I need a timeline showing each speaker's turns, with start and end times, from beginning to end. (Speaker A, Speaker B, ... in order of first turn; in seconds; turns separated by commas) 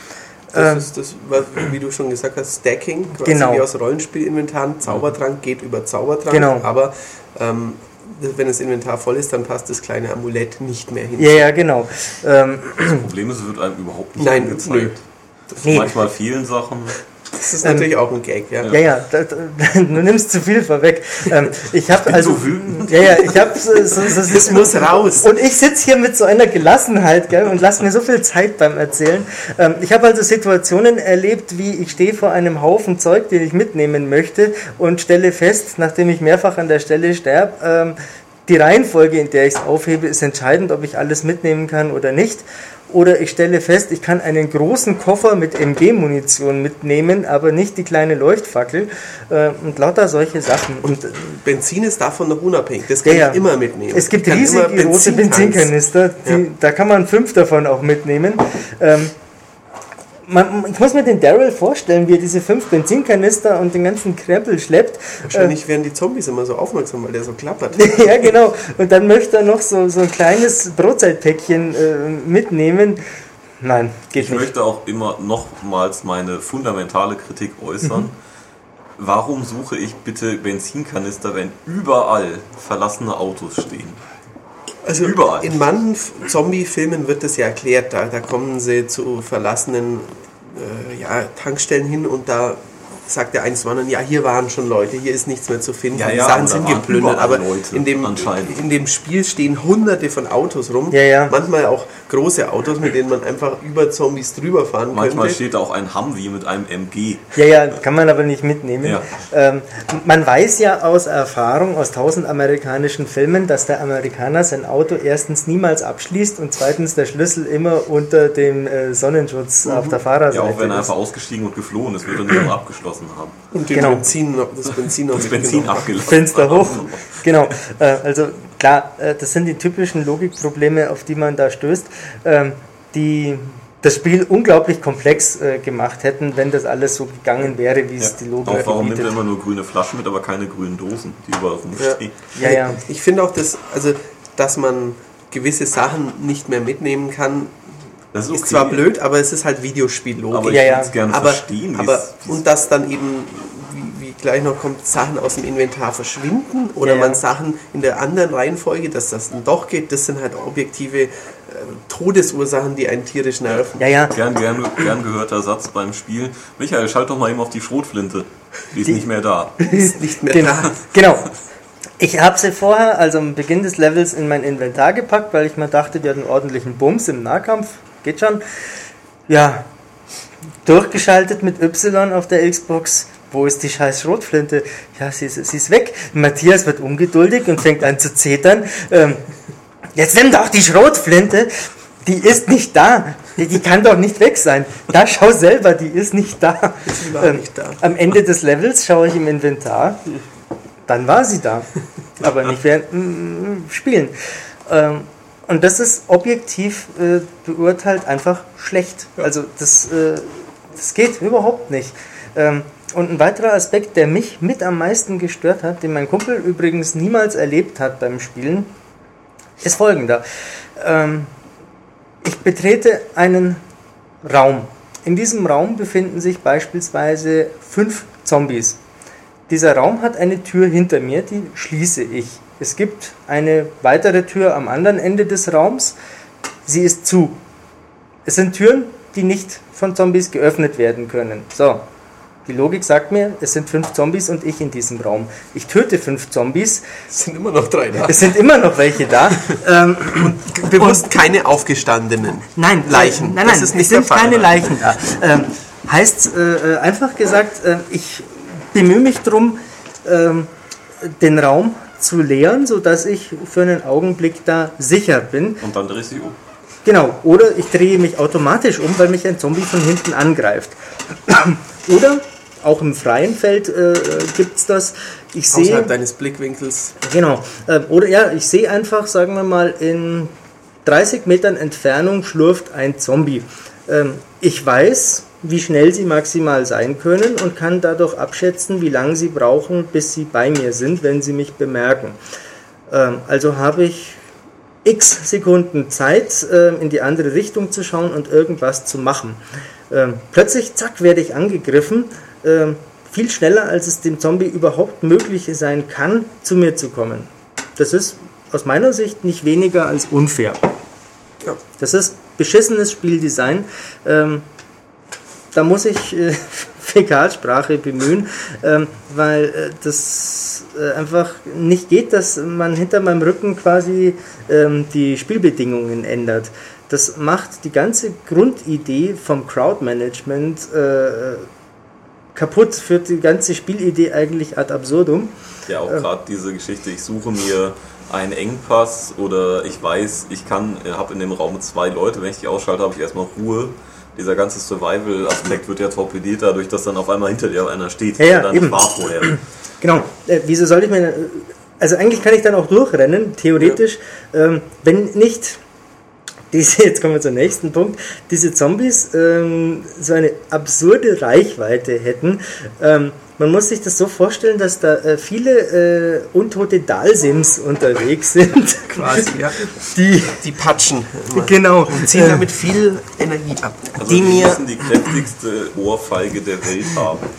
Speaker A: 0.5-0.9, Speaker B: 0.5-11.5, Speaker A: 3.2-3.6, Speaker A: 6.3-6.7, Speaker A: 11.2-13.0, Speaker C: 12.8-17.0, Speaker B: 14.2-14.9, Speaker A: 15.6-15.9, Speaker B: 17.3-18.7, Speaker A: 17.6-17.9, Speaker A: 18.7-51.4, Speaker C: 22.0-23.6, Speaker B: 24.1-25.3, Speaker B: 50.8-55.7, Speaker A: 53.0-59.1, Speaker A: 60.3-65.5, Speaker B: 65.2-68.3, Speaker A: 67.8-73.0, Speaker A: 73.6-74.5, Speaker C: 74.2-78.1, Speaker C: 79.0-84.0, Speaker B: 84.8-105.4, Speaker C: 85.0-85.6, Speaker C: 95.9-98.6, Speaker A: 100.9-101.3, Speaker C: 104.9-107.4, Speaker A: 107.3-120.9, Speaker B: 119.6-120.0, Speaker C: 120.3-123.3, Speaker B: 123.5-126.1, Speaker A: 123.7-124.0, Speaker C: 125.1-127.6, Speaker A: 126.0-139.1, Speaker C: 138.0-142.1, Speaker B: 141.8-147.6, Speaker A: 142.3-142.8, Speaker C: 148.1-148.8, Speaker B: 148.3-163.9, Speaker C: 150.3-152.4, Speaker A: 150.5-150.9, Speaker A: 156.8-157.2, Speaker A: 163.8-164.1, Speaker C: 164.1-169.6, Speaker A: 169.6-171.3, Speaker B: 169.7-170.8, Speaker A: 172.0-178.4, Speaker A: 179.3-179.7, Speaker A: 180.6-189.2, Speaker A: 189.9-200.0, Speaker B: 196.9-197.8, Speaker A: 200.9-201.7, Speaker A: 202.2-204.1, Speaker A: 204.7-218.7, Speaker A: 219.6-220.2, Speaker A: 220.8-221.3, Speaker A: 222.2-223.6, Speaker A: 224.2-228.8, Speaker A: 229.5-235.9, Speaker A: 236.7-237.4, Speaker A: 238.2-241.8, Speaker A: 242.4-246.9, Speaker B: 247.1-248.3, Speaker A: 248.1-251.1, Speaker B: 249.3-249.6, Speaker B: 250.1-254.7, Speaker A: 252.6-260.5, Speaker A: 261.0-265.6, Speaker C: 265.6-266.4, Speaker A: 266.8-275.9, Speaker B: 275.5-276.9, Speaker A: 277.0-280.3, Speaker A: 280.8-292.2, Speaker A: 292.9-294.2, Speaker A: 294.8-299.4, Speaker A: 299.9-310.6, Speaker A: 311.8-314.4, Speaker A: 315.5-331.5, Speaker A: 332.3-335.3, Speaker C: 335.7-349.4, Speaker A: 348.2-355.6, Speaker A: 356.5-370.4, Speaker B: 368.9-369.6, Speaker B: 370.3-374.6, Speaker A: 371.3-372.5, Speaker C: 374.0-377.3